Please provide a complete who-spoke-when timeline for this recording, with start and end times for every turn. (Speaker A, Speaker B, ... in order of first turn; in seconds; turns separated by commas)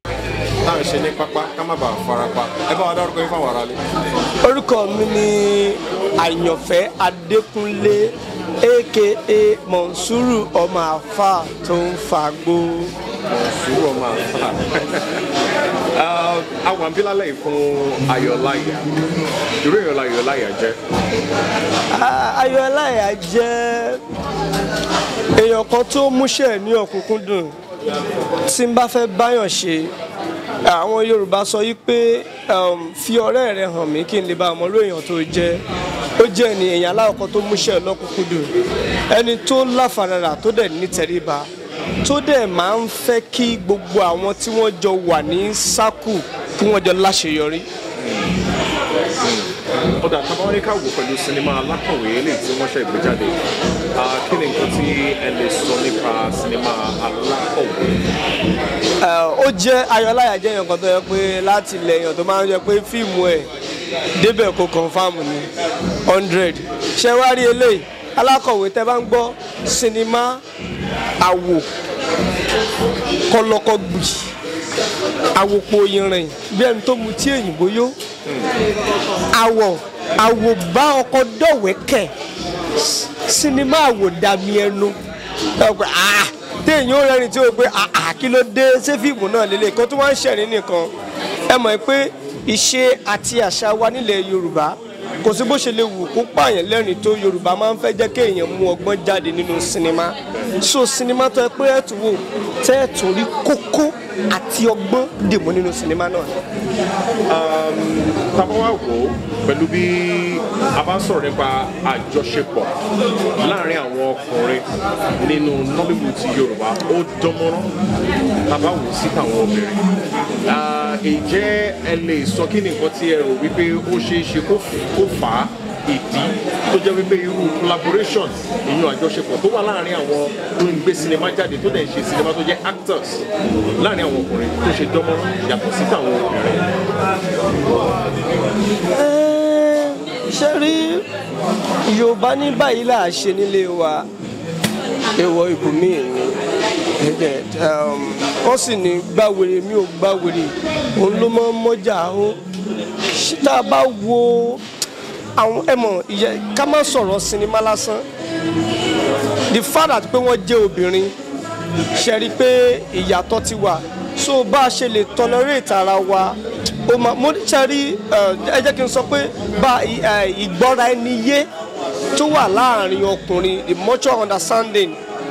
Speaker A: 0.6-3.8, Speaker B: 4.4-12.9, Speaker A: 13.3-15.2, Speaker A: 15.9-18.9, Speaker A: 19.6-20.8, Speaker B: 21.9-24.0, Speaker B: 25.4-27.5, Speaker B: 28.5-29.9, Speaker B: 30.6-35.6, Speaker B: 36.2-38.5, Speaker B: 39.1-41.5, Speaker B: 42.0-47.7, Speaker A: 48.0-48.3, Speaker A: 49.2-53.4, Speaker A: 54.0-58.0, Speaker B: 59.0-63.5, Speaker B: 64.2-65.5, Speaker B: 66.1-70.4, Speaker B: 71.2-71.7, Speaker B: 73.3-74.3, Speaker B: 75.3-78.0, Speaker B: 79.3-82.1, Speaker B: 82.8-85.0, Speaker B: 85.6-90.9, Speaker B: 91.5-106.4, Speaker A: 107.3-112.8, Speaker A: 113.4-114.7, Speaker A: 115.2-117.8, Speaker A: 118.5-119.8, Speaker A: 120.5-133.2, Speaker A: 133.8-136.6, Speaker B: 138.9-141.1, Speaker B: 141.9-144.1, Speaker B: 145.2-146.4, Speaker B: 147.0-152.4, Speaker B: 153.1-154.6, Speaker B: 155.4-158.1, Speaker B: 159.5-161.2, Speaker B: 161.9-171.5, Speaker B: 172.2-175.0